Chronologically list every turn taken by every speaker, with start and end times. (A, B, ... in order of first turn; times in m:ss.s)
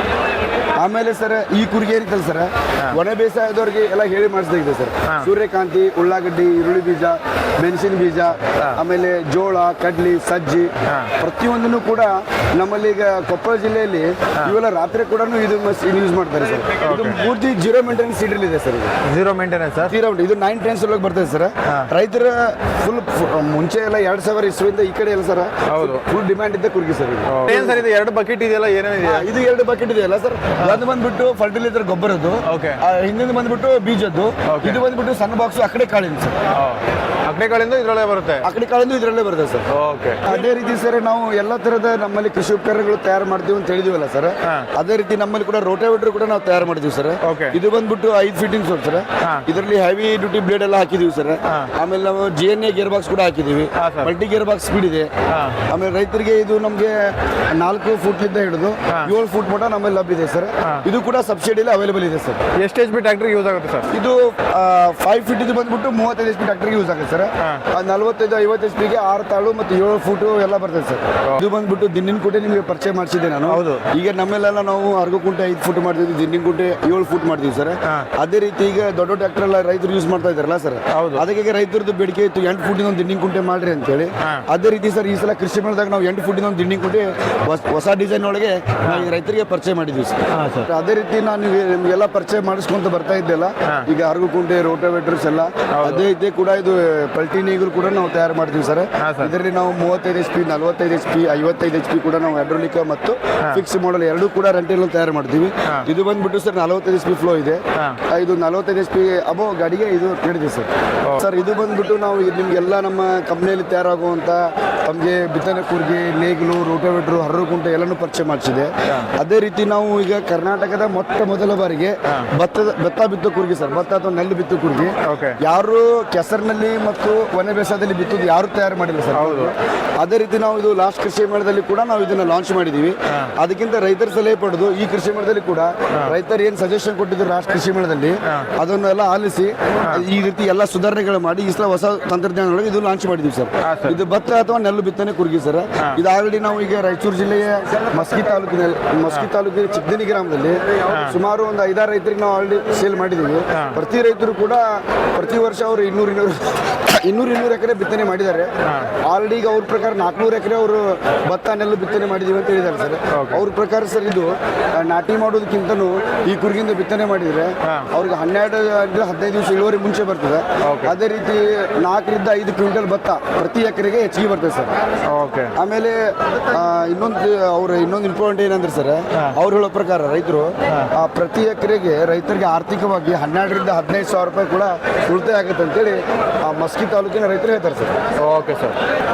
0:00.8-0:18.9 A
0:10.8-0:11.1 B
0:16.8-0:17.2 B
0:19.0-0:19.9 B
0:19.9-0:27.8 A
0:25.7-0:26.0 B
0:27.3-0:29.3 B
0:29.0-0:36.4 A
0:30.6-0:30.9 B
0:32.4-0:32.8 B
0:34.5-0:34.8 B
0:36.5-0:38.4 B
0:38.4-0:39.6 A
0:39.7-0:40.3 B
0:40.2-0:55.1 A
0:47.2-0:47.6 B
0:49.2-0:49.4 B
0:51.4-0:51.7 B
0:53.8-0:54.1 B
0:55.3-0:55.6 B
0:55.7-1:02.4 A
1:02.6-1:03.9 B
1:03.9-2:38.5 A
1:07.4-1:07.6 B
1:13.5-1:13.8 B
1:20.9-1:21.2 B
1:28.8-1:29.1 B
1:30.3-1:30.7 B
1:35.7-1:36.1 B
1:39.0-1:39.3 B
2:05.0-2:05.4 B
2:09.1-2:09.5 B
2:23.6-2:24.0 B
2:30.9-2:31.2 B
2:33.5-2:33.8 B
2:38.6-2:38.9 B
2:39.0-2:54.7 A
2:43.1-2:43.4 B
2:50.6-2:50.9 B
2:55.1-2:55.5 B
2:55.6-3:07.9 A
3:08.2-3:08.8 B